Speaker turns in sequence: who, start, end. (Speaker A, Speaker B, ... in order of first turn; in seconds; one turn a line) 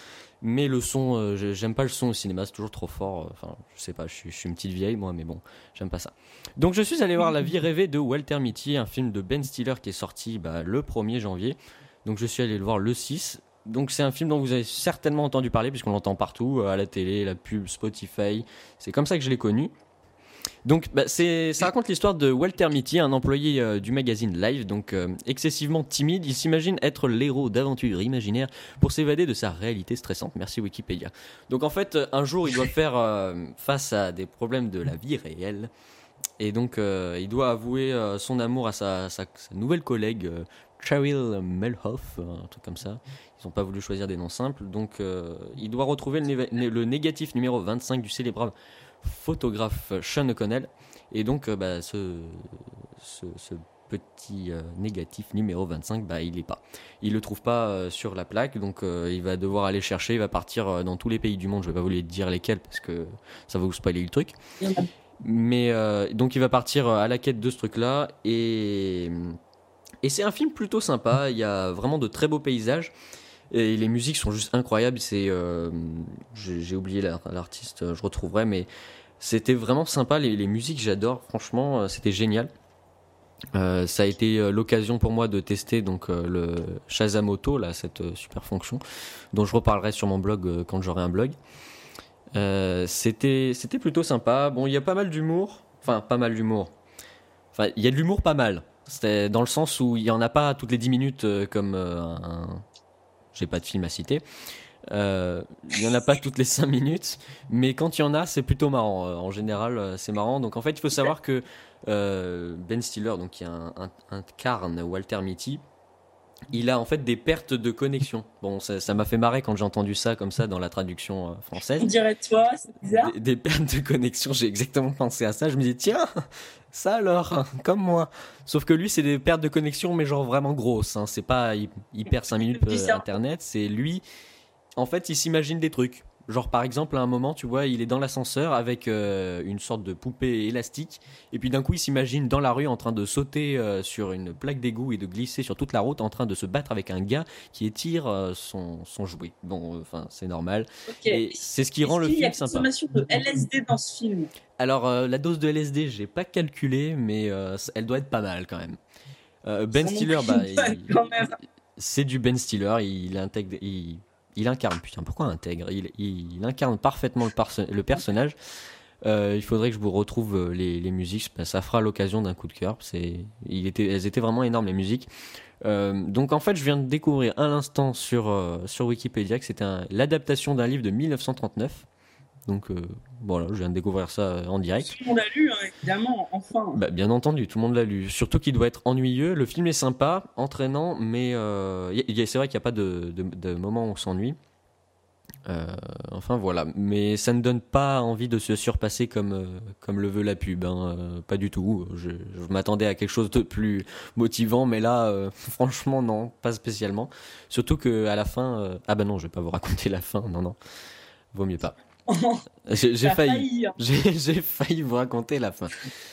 Speaker A: 0.4-19.7
Speaker A: 20.6-35.7
Speaker A: 36.4-64.4
Speaker B: 64.6-64.9
Speaker A: 65.2-69.4
Speaker A: 70.0-72.9
Speaker A: 73.5-78.7
Speaker A: 79.2-82.5
Speaker A: 83.5-88.8
Speaker A: 89.3-91.3
Speaker A: 92.3-96.7
Speaker A: 97.5-102.6
Speaker A: 103.3-104.2
Speaker A: 104.9-115.6
Speaker A: 116.5-121.9
Speaker B: 121.8-123.1
Speaker A: 122.9-126.1
Speaker A: 126.7-134.0
Speaker B: 132.4-133.2
Speaker A: 134.8-152.7
Speaker B: 150.9-154.3
Speaker A: 154.6-158.8
Speaker A: 159.4-161.0
Speaker B: 159.8-161.3
Speaker A: 161.8-168.4
Speaker A: 169.0-175.1
Speaker A: 175.6-181.9
Speaker A: 182.5-185.0
Speaker B: 184.8-186.8
Speaker A: 186.8-194.4
Speaker A: 195.5-210.6
Speaker A: 211.3-211.8
Speaker B: 212.1-212.4
Speaker A: 212.7-215.9
Speaker B: 213.0-213.8